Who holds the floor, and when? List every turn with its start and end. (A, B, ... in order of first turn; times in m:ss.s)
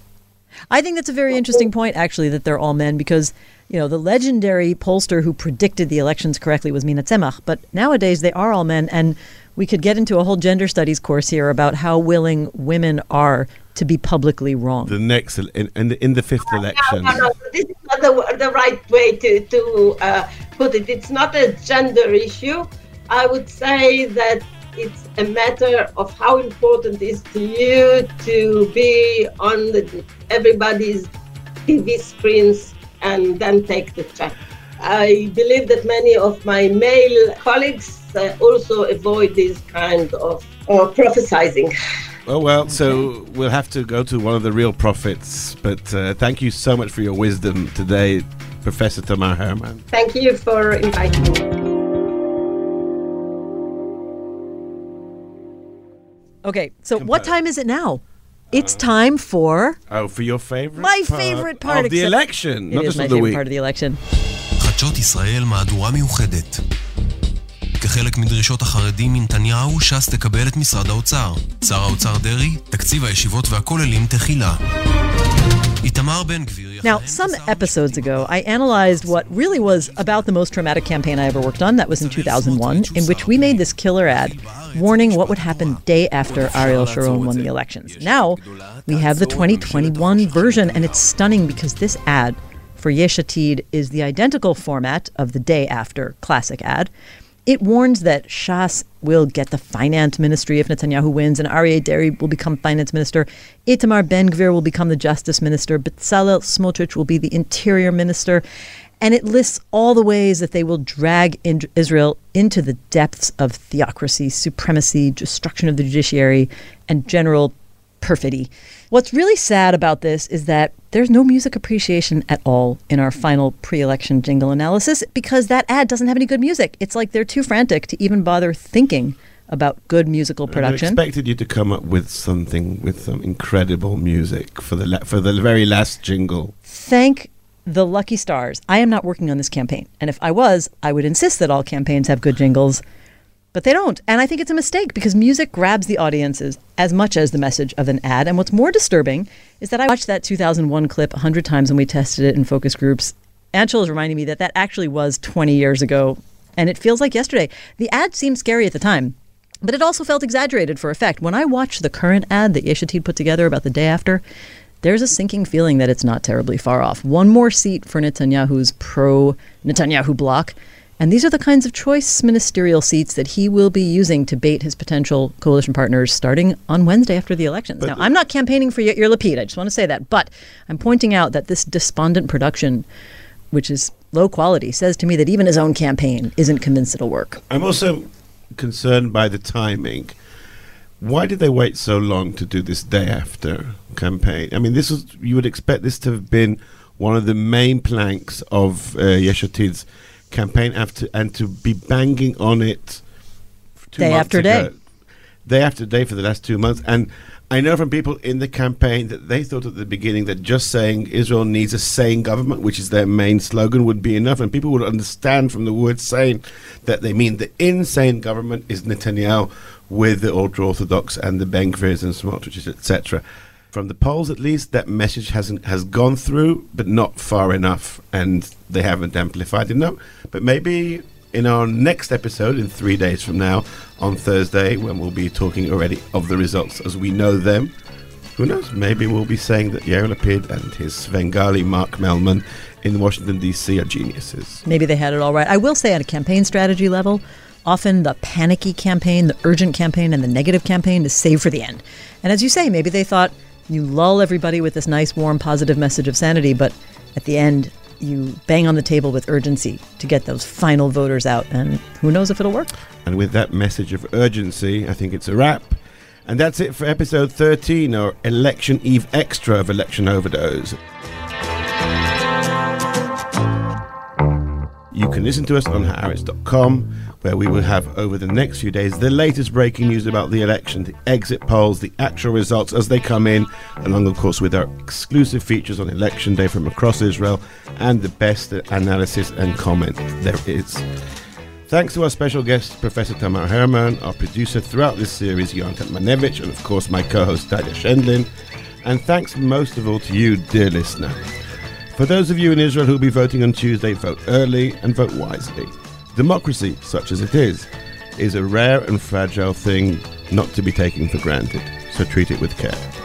0:00.7-0:14.9 A
0:14.8-0:17.3 B
0:16.6-0:31.1 C
0:31.7-0:41.7 C
0:42.3-0:49.9 B
0:49.9-0:51.6 C
0:56.4-0:59.8 A
0:57.0-0:57.3 B
0:58.5-0:58.8 B
0:59.9-1:03.4 B
1:00.8-1:02.1 A
1:02.7-1:04.0 A
1:04.6-1:06.6 D
1:07.8-1:14.6 D
1:15.8-1:20.3 D
1:16.8-1:36.9 A
1:21.9-1:31.2 D
1:37.4-1:48.4 A
1:49.0-2:11.0 A
2:10.5-2:16.5 B
2:16.7-2:22.8 A
2:23.5-2:44.2 A
2:44.8-3:02.8 A
2:57.8-2:58.1 B
3:03.5-3:07.4 A
3:07.5-3:10.1 B
3:11.0-3:23.0 B
3:23.8-3:24.7 B
3:24.0-3:24.7 A
3:25.4-3:57.7 B
3:58.4-4:04.6 B
4:04.6-4:22.7 A
4:23.0-4:30.8 B
4:34.9-4:50.8 B
4:51.7-4:58.3 B
4:58.8-5:01.4 B
5:01.9-5:12.8 B